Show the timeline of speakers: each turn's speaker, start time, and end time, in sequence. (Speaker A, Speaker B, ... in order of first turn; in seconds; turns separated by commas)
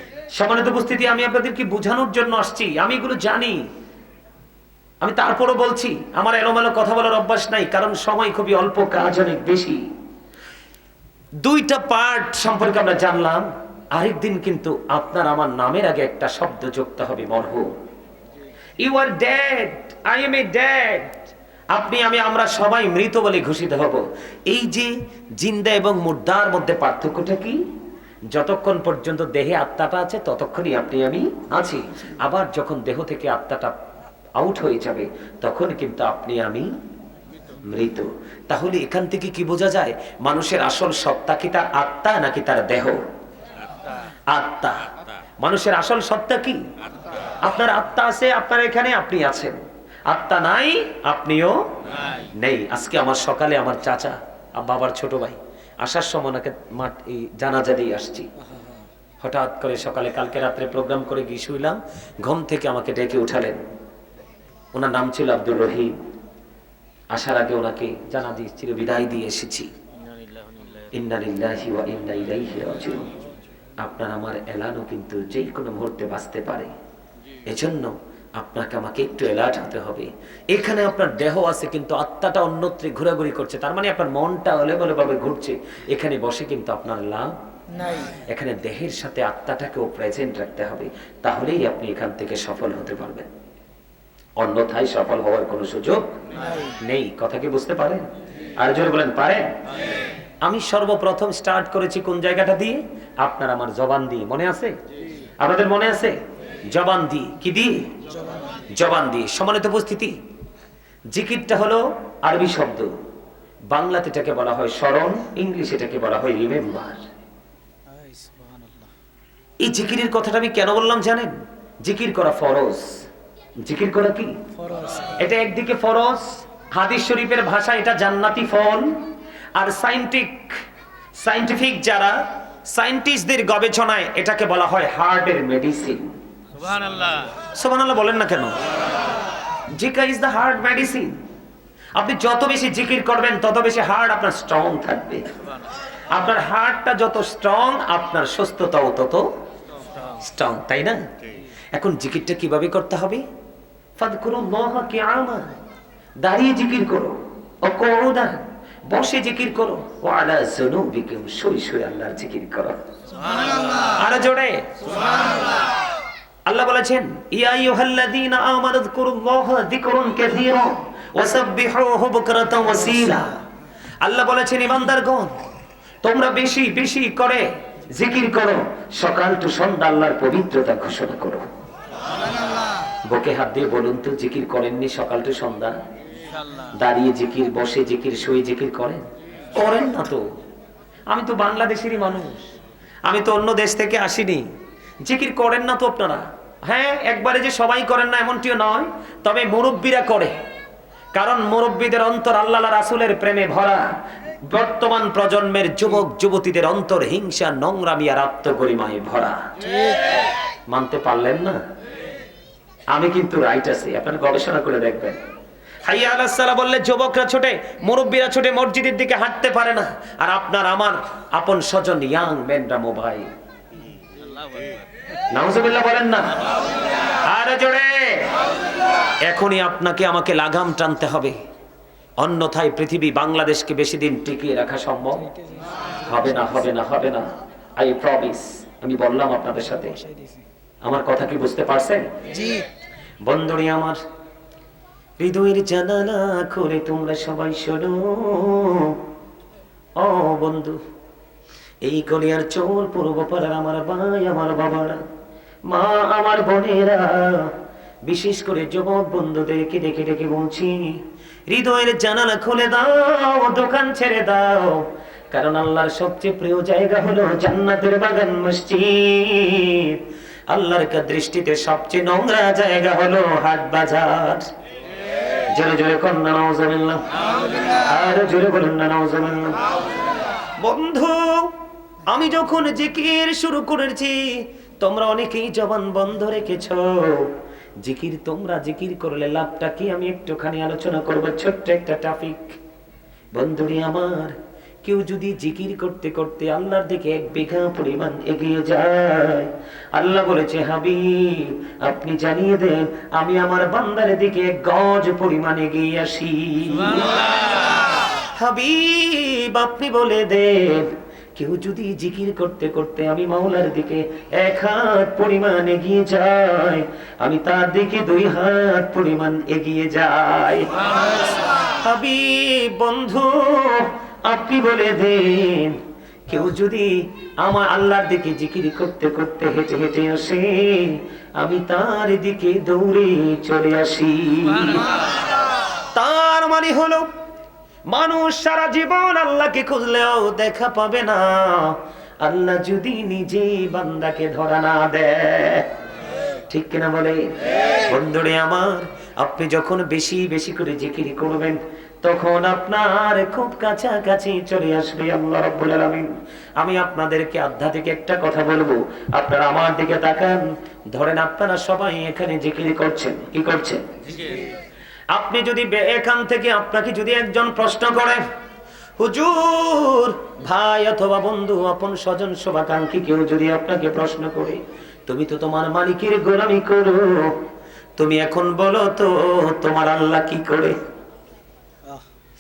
Speaker A: 0.3-3.6, Speaker A: 5.0-9.8, Speaker A: 11.4-17.7, Speaker A: 18.8-21.2, Speaker A: 21.7-27.6, Speaker A: 28.3-33.8, Speaker A: 34.4-36.7, Speaker A: 37.7-43.0, Speaker A: 44.3-44.9, Speaker A: 45.4-46.6, Speaker A: 47.4-49.6, Speaker A: 50.1-51.6, Speaker A: 52.4-58.3, Speaker B: 58.5-58.9, Speaker A: 59.2-63.6, Speaker A: 64.8-65.9, Speaker A: 67.1-69.7, Speaker A: 70.9-73.1, Speaker A: 73.8-76.7, Speaker A: 77.5-87.4, Speaker B: 87.7-88.2, Speaker A: 88.3-93.3, Speaker A: 94.4-96.2, Speaker B: 96.3-96.8, Speaker A: 96.8-98.1, Speaker A: 98.6-99.5, Speaker A: 100.4-104.8, Speaker A: 105.4-106.2, Speaker A: 106.7-107.9, Speaker B: 108.1-108.7, Speaker A: 108.7-110.1, Speaker A: 111.1-112.9, Speaker A: 113.7-117.0, Speaker B: 117.9-118.9, Speaker A: 119.6-122.9, Speaker A: 123.6-124.4, Speaker B: 124.5-125.3, Speaker A: 125.2-129.0, Speaker A: 129.6-130.6, Speaker A: 131.2-136.1, Speaker A: 137.5-138.6, Speaker A: 139.8-141.2, Speaker A: 142.0-145.3, Speaker A: 146.1-149.3, Speaker A: 150.2-151.0, Speaker A: 151.7-153.2, Speaker A: 154.0-155.5, Speaker A: 156.2-162.8, Speaker A: 164.0-164.8, Speaker A: 166.5-173.4, Speaker A: 174.0-175.4, Speaker A: 176.0-181.5, Speaker A: 183.1-185.8, Speaker A: 186.8-189.0, Speaker A: 189.5-190.2, Speaker A: 191.1-192.5, Speaker A: 193.1-194.4, Speaker A: 195.0-200.4, Speaker A: 201.1-203.9, Speaker A: 204.5-209.4, Speaker A: 210.7-211.6, Speaker A: 212.9-215.2, Speaker A: 215.8-223.3, Speaker A: 225.3-226.4, Speaker A: 227.2-228.3, Speaker A: 229.2-231.4, Speaker A: 232.2-235.3, Speaker B: 235.2-236.6, Speaker A: 236.1-240.0, Speaker B: 239.6-240.4, Speaker A: 240.8-242.1, Speaker B: 242.3-242.7, Speaker A: 243.2-244.0, Speaker A: 245.2-249.0, Speaker A: 250.0-250.8, Speaker A: 251.8-255.0, Speaker A: 255.7-257.5, Speaker A: 258.1-274.5, Speaker A: 275.5-277.0, Speaker A: 277.7-279.6, Speaker A: 280.6-281.6, Speaker A: 282.1-292.6, Speaker A: 293.4-307.3, Speaker A: 308.4-320.7, Speaker A: 321.7-334.9, Speaker A: 335.9-337.1, Speaker A: 337.9-345.7, Speaker A: 346.5-347.3, Speaker A: 347.9-363.8, Speaker A: 365.1-368.2, Speaker A: 369.0-377.4, Speaker A: 378.0-380.8